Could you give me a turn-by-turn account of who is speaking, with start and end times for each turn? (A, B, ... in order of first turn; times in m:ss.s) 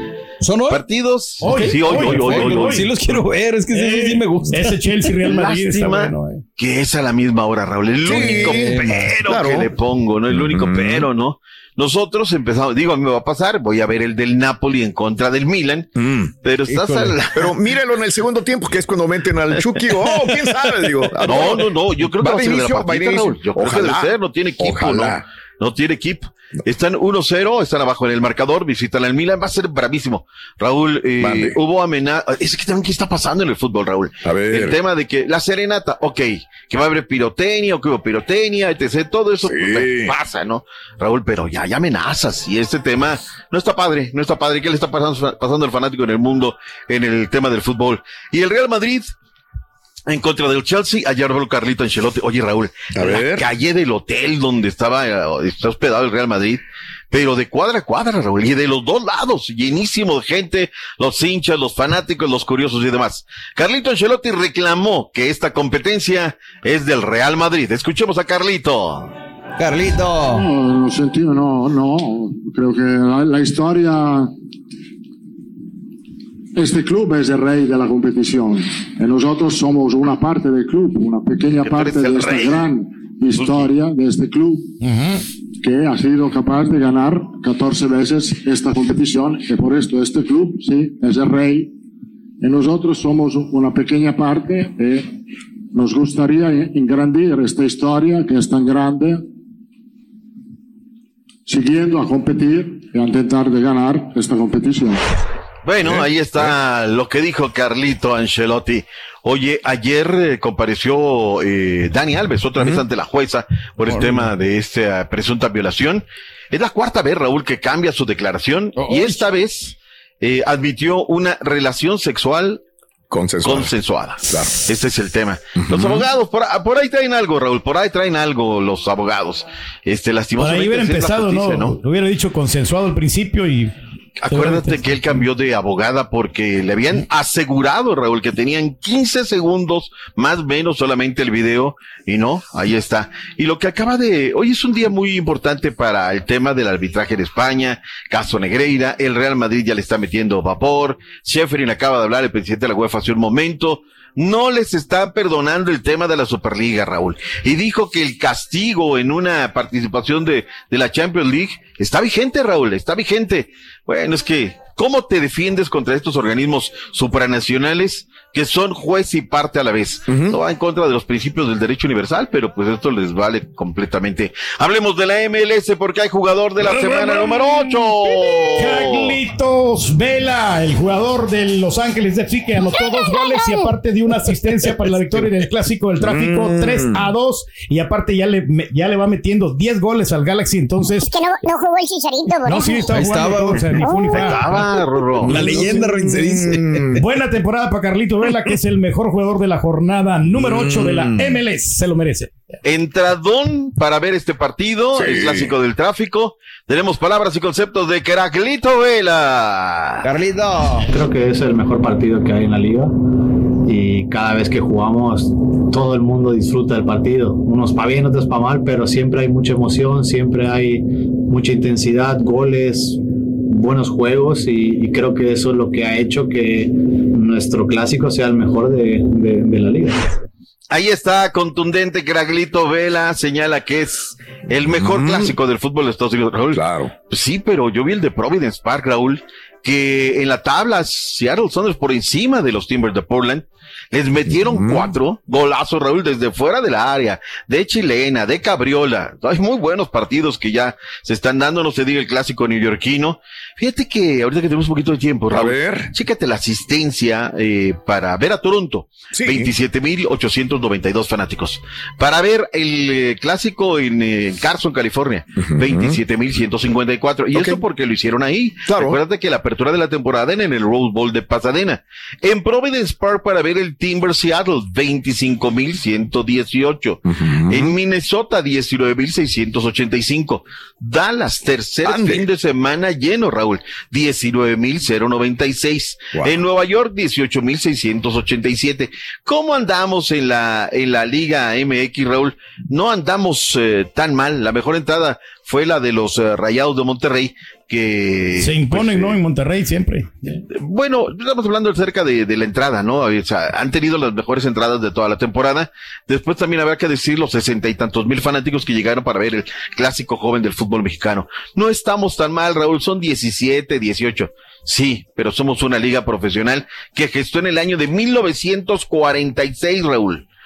0:00.4-0:00.8 A
0:00.7-0:02.8 B
0:01.4-0:02.9 C
0:01.4-0:04.8 A
0:03.7-0:06.4 C
0:05.2-0:15.9 B
0:08.0-0:09.7 D
0:08.3-0:09.0 A
0:10.3-0:11.1 D
0:16.0-0:16.3 D
0:16.4-0:17.5 B
0:16.7-0:17.2 A
0:17.3-0:25.2 D
0:21.2-0:49.1 B
0:31.2-0:31.6 D
0:34.2-0:34.8 D
0:39.4-0:40.2 D
0:50.1-1:09.1 B
0:52.9-0:53.5 D
1:09.6-1:10.4 A
1:10.3-1:14.3 E
1:16.6-1:31.7 E
1:21.6-1:22.6 B
1:23.3-1:23.7 B
1:32.4-1:35.2 E
1:35.7-1:39.2 E
1:41.5-1:45.0 E
1:45.6-2:02.6 B
1:45.8-1:46.5 D
1:53.9-1:54.3 A
1:58.8-1:59.2 A
2:03.1-2:03.7 D
2:03.4-2:11.8 B
2:04.2-2:04.6 D
2:05.5-2:06.1 D
2:10.4-2:13.7 C
2:14.2-2:59.2 B
2:14.3-2:15.2 C
2:50.1-2:50.4 D
2:56.6-3:11.1 C
3:02.6-3:03.7 F
3:06.0-3:07.0 D
3:11.0-3:12.9 F
3:12.4-3:14.4 C
3:12.9-3:14.0 A
3:13.8-3:14.4 F
3:14.1-3:15.5 B
3:15.2-3:17.0 A
3:15.2-3:17.0 D
3:17.0-3:22.3 C
3:20.3-3:21.4 D
3:22.6-3:30.1 B
3:24.9-3:25.5 D
3:30.0-3:30.9 A
3:30.9-3:32.9 G
3:33.6-3:50.2 G
3:50.7-4:59.2 B
3:54.5-3:55.4 D
3:56.5-3:56.9 D
4:04.3-4:05.0 D
4:15.3-4:15.9 D
4:19.1-4:19.5 D
4:25.4-4:26.0 D
4:27.3-4:27.6 D
4:28.6-4:29.0 D
4:37.0-4:37.8 D
4:41.8-4:42.2 D
4:58.4-5:00.3 C
5:00.5-5:20.2 B